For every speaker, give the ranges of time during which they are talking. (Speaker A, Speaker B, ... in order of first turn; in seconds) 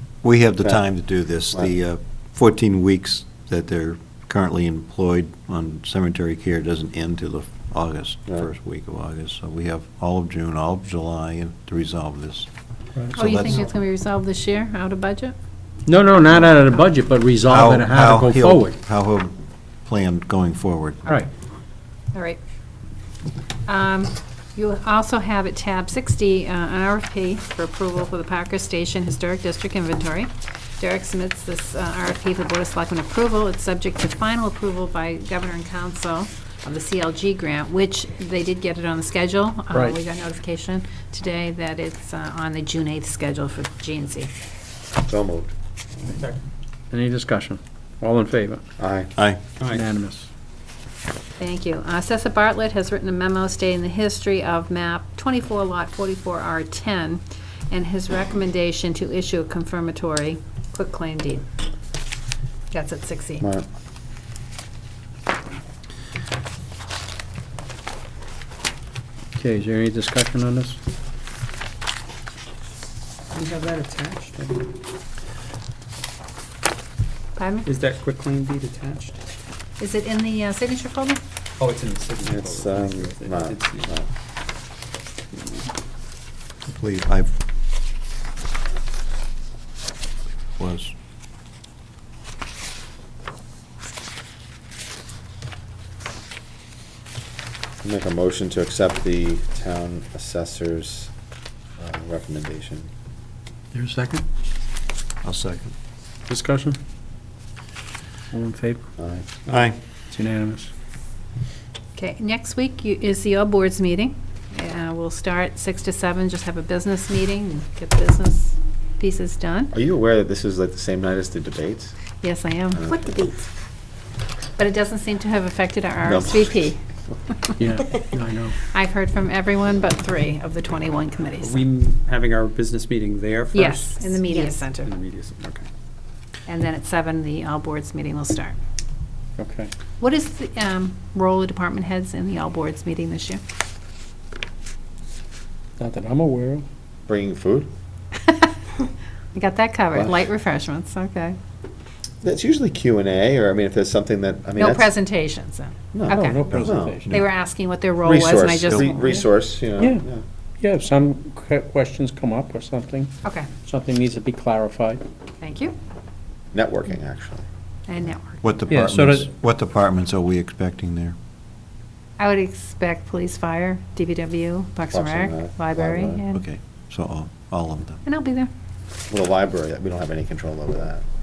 Speaker A: 0.2-12.5, 13.1-13.7, 17.5-19.3, 19.9-21.0, 49.1-49.4, 86.7-87.3, 90.6-90.9, 105.2-105.7, 109.5-109.8, 158.6-158.9, 168.4-171.1, 176.3-178.0
Speaker B: 13.1-15.3, 22.1-22.4, 23.7-44.3, 51.4-61.5, 62.7-63.5, 77.3-77.7, 79.8-81.2, 111.9-119.7, 122.2-123.0, 124.6-126.8, 128.7-131.6, 133.5-134.9, 136.4-138.6, 140.0-143.4, 148.2-148.6, 149.3-151.4, 154.6-156.4, 157.1-159.2, 163.2-163.5, 165.4-165.8, 167.9-168.4, 172.2-176.4, 178.0-178.5
Speaker C: 15.8-18.8, 46.9-48.6, 49.6-50.3, 69.3-70.8, 103.7-104.2, 106.3-106.8, 108.3-108.8, 110.1-110.7, 127.6-128.6, 139.4-139.7, 145.8-146.6, 156.1-157.1, 160.6-165.0, 168.7-169.3
Speaker D: 45.0-45.5, 48.8-49.1, 82.2-84.1, 97.8-101.1, 101.8-102.9, 109.0-109.3, 119.7-121.9, 122.7-123.3, 126.0-126.7, 147.1-147.7, 149.9-150.2, 152.2-154.9, 155.9-157.0, 158.0-160.2, 166.5-167.4, 174.9-176.2, 179.1-181.0
Speaker E: 46.0-46.4, 49.6-49.8, 73.3-74.7, 77.7-79.2, 81.6-83.9, 85.3-85.7, 131.4-133.9, 134.8-135.7